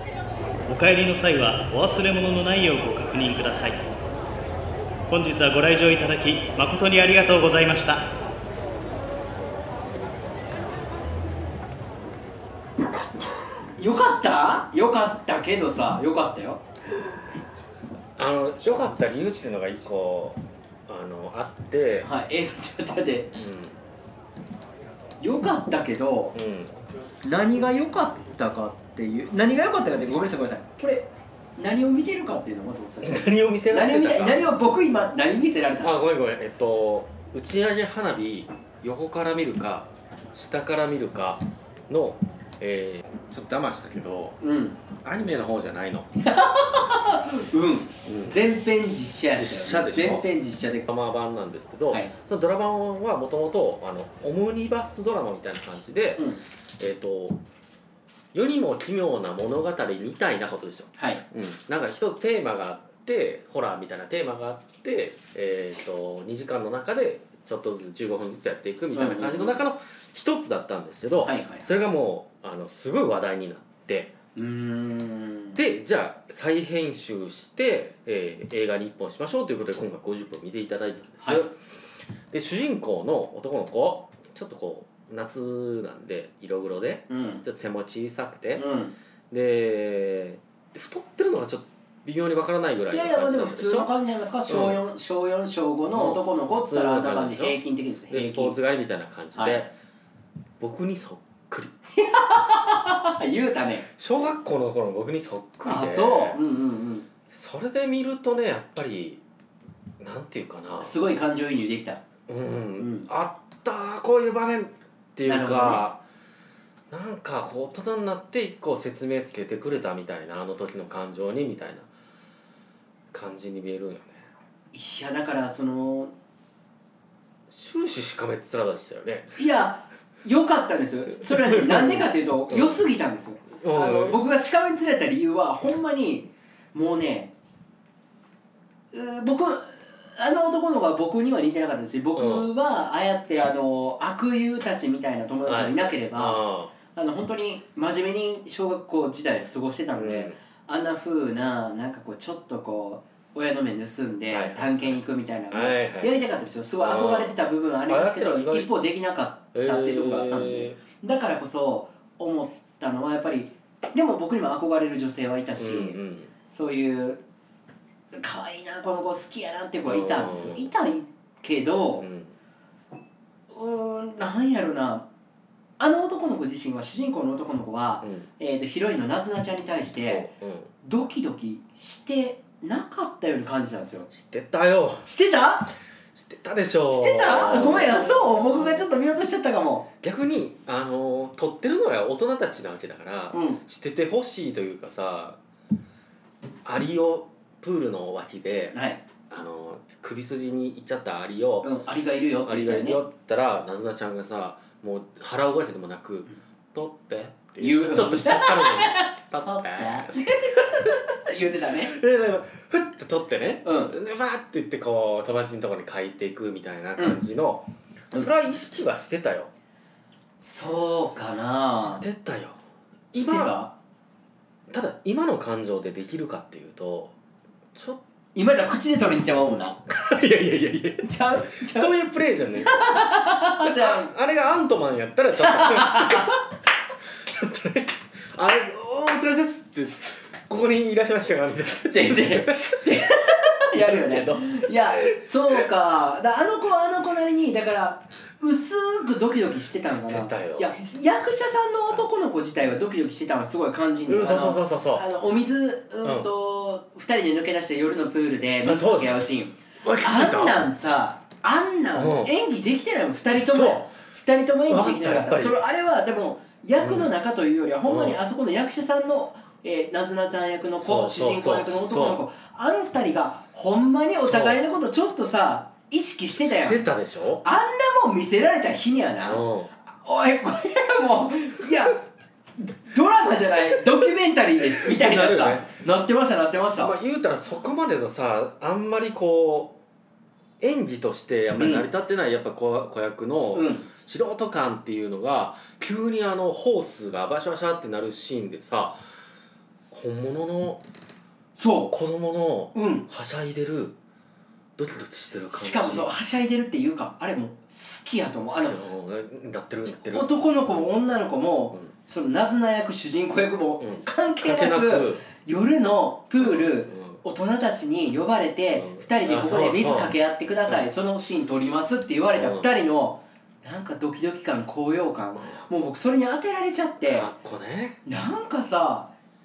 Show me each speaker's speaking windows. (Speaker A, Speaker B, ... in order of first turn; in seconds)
Speaker A: 0.7-3.8, 5.1-8.0
Speaker B: 13.8-16.6, 22.0-23.3, 25.2-26.4, 27.2-36.0, 44.4-44.8, 46.2-50.9, 56.2-56.4, 61.0-61.2, 68.9-69.7, 71.2-71.7, 74.3-75.6, 81.2-81.5, 87.1-87.4, 88.6-89.0, 92.9-98.6, 99.3-99.7, 101.9-103.9, 105.7-107.1, 110.8-112.0, 112.8-113.1, 115.3-115.9, 124.7-126.1, 129.4-137.3, 138.9-167.2, 168.1-172.1, 173.5-175.1, 175.8-180.3, 180.8-184.1, 185.1-185.7, 186.9-189.9, 193.3-193.6, 198.7-199.0, 201.6-203.0, 207.6-212.0, 213.6-213.9, 217.0-217.2, 220.4-222.0, 223.1-223.7, 228.3-229.8, 231.0-231.9, 232.6-234.1, 235.4-236.3, 241.9-276.8, 277.4-282.0, 282.6-287.0, 291.6-291.9, 293.5-293.9, 301.6-301.9, 302.7-303.1, 305.5-308.8, 310.1-327.3, 328.1-329.1
Speaker C: 18.2-22.1, 23.3-23.8, 26.3-26.7, 33.0-34.5, 35.8-44.4, 45.0-46.1, 48.0-48.4, 49.4-50.3, 50.9-57.4, 58.3-74.1, 75.5-81.6, 82.3-88.7, 89.3-93.9, 94.5-94.8, 95.9-97.6, 98.1-99.7, 100.6-101.7, 104.0-106.4, 107.3-109.2, 110.0-111.0, 112.3-116.0, 116.9-121.9, 123.1-124.2, 127.5-129.4, 131.2-132.8, 133.6-134.2, 142.2-142.5, 145.4-146.7, 149.9-150.4, 154.3-155.0, 155.5-156.1, 156.8-157.3, 157.9-158.7, 159.5-160.8, 165.6-166.3, 169.9-170.7, 172.0-172.3, 178.0-178.3, 180.0-180.7, 184.1-185.1, 186.2-188.9, 190.0-195.4, 196.7-198.8, 199.3-201.7, 202.4-211.0, 211.9-219.5, 221.7-222.6, 223.1-223.6, 224.7-227.1, 227.8-228.0, 229.9-233.0, 233.6-236.4, 237.2-243.0, 243.7-245.2, 249.8-250.8, 254.1-255.1, 256.0-256.3, 258.6-259.2, 259.8-260.6, 261.9-262.3, 263.5-263.9, 264.7-265.6, 266.8-267.1, 267.9-268.2, 270.8-272.2, 274.2-274.6, 276.4-277.4, 279.2-279.7, 284.6-285.7, 286.7-289.8, 290.6-299.0, 299.9-300.8, 301.9-303.9, 304.8-306.1, 308.4-310.3, 313.8-315.2, 316.4-317.2, 318.7-320.1, 322.4-322.7, 327.0-328.0